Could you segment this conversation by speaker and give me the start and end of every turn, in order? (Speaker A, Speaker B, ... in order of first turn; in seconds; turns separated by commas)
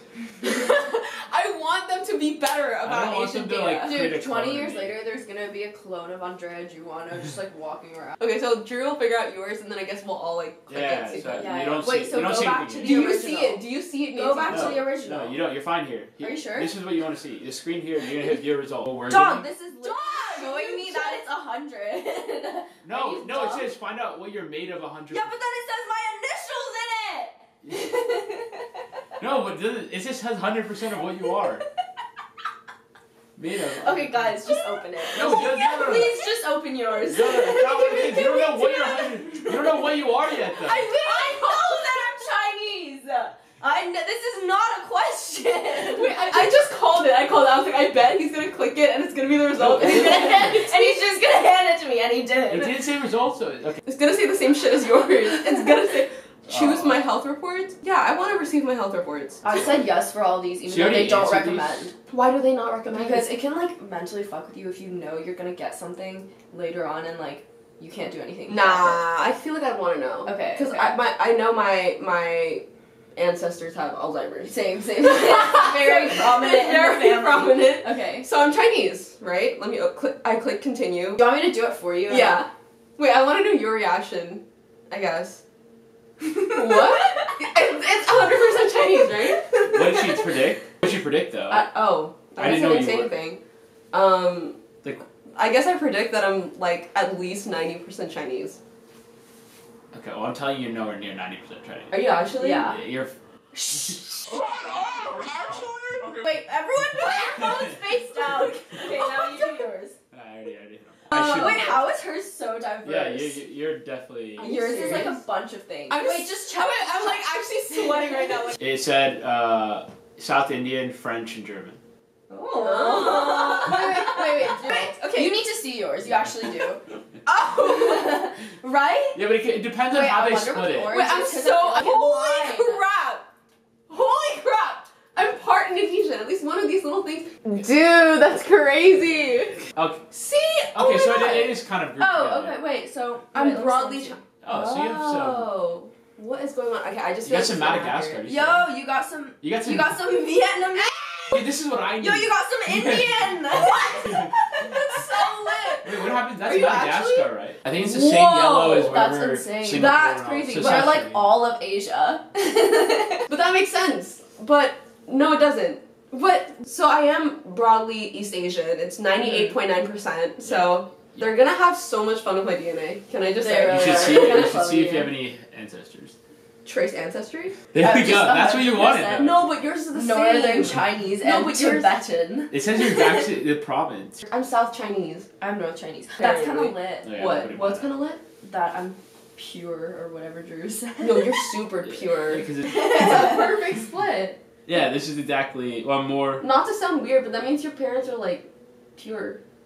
Speaker A: 0.4-4.0, Speaker B: 2.8-5.0, Speaker C: 3.8-8.2, Speaker A: 8.2-11.5, Speaker B: 10.7-13.2, Speaker C: 11.3-15.4, Speaker A: 12.8-14.9, Speaker B: 14.5-19.4, Speaker C: 16.2-16.7, Speaker C: 19.1-23.7, Speaker A: 19.8-21.2, Speaker B: 22.8-25.3, Speaker C: 25.1-28.8, Speaker B: 29.2-31.6, Speaker B: 33.4-34.4, Speaker C: 33.8-39.5, Speaker B: 35.1-36.2, Speaker B: 36.9-40.9, Speaker A: 40.6-41.6, Speaker C: 40.8-46.6, Speaker A: 45.7-51.0, Speaker B: 49.6-50.4, Speaker C: 49.8-52.8, Speaker B: 52.5-53.8, Speaker A: 53.9-59.4, Speaker B: 56.5-57.0, Speaker C: 59.4-61.9, Speaker B: 60.6-61.9, Speaker A: 62.1-63.3, Speaker C: 62.9-69.0, Speaker A: 68.5-74.5, Speaker C: 70.2-71.0, Speaker C: 74.4-78.2, Speaker A: 75.1-81.2, Speaker C: 81.2-82.4, Speaker A: 82.1-85.4, Speaker A: 86.5-90.1, Speaker C: 86.5-87.0, Speaker B: 89.6-91.7, Speaker A: 91.5-93.4, Speaker B: 92.3-93.1, Speaker A: 93.9-94.6, Speaker A: 95.3-98.6, Speaker B: 99.9-102.0, Speaker A: 101.9-102.7, Speaker C: 102.4-102.8, Speaker B: 102.6-103.1, Speaker C: 103.5-109.9, Speaker A: 104.4-105.3, Speaker B: 107.4-107.8, Speaker B: 110.1-111.8, Speaker C: 111.1-113.4, Speaker B: 112.8-115.1, Speaker A: 114.3-115.2, Speaker C: 114.4-118.3, Speaker A: 115.9-118.6, Speaker B: 118.6-121.8, Speaker A: 122.3-125.4, Speaker C: 122.4-129.2, Speaker B: 129.1-130.9, Speaker C: 129.8-132.8, Speaker A: 130.8-133.2, Speaker A: 133.9-141.5, Speaker B: 139.7-140.0, Speaker B: 140.7-142.6, Speaker C: 142.0-144.2, Speaker A: 143.3-148.3, Speaker B: 144.4-145.5, Speaker B: 147.2-148.7, Speaker C: 148.2-150.9, Speaker B: 149.4-150.0, Speaker A: 150.9-151.4, Speaker B: 151.3-154.3, Speaker C: 152.0-163.3, Speaker B: 155.8-161.3, Speaker A: 163.3-175.0, Speaker B: 170.4-171.2, Speaker C: 173.3-175.1, Speaker B: 173.6-176.1, Speaker A: 176.6-177.6, Speaker B: 177.7-179.4, Speaker C: 177.8-179.4, Speaker A: 179.2-181.9, Speaker C: 179.9-182.6, Speaker B: 182.5-184.2, Speaker A: 184.2-185.3, Speaker C: 185.4-187.2, Speaker A: 186.2-188.2, Speaker B: 187.0-187.9, Speaker C: 188.4-191.5, Speaker A: 191.0-194.4, Speaker B: 191.8-193.2, Speaker C: 192.6-193.4, Speaker B: 194.7-196.4, Speaker A: 196.4-199.4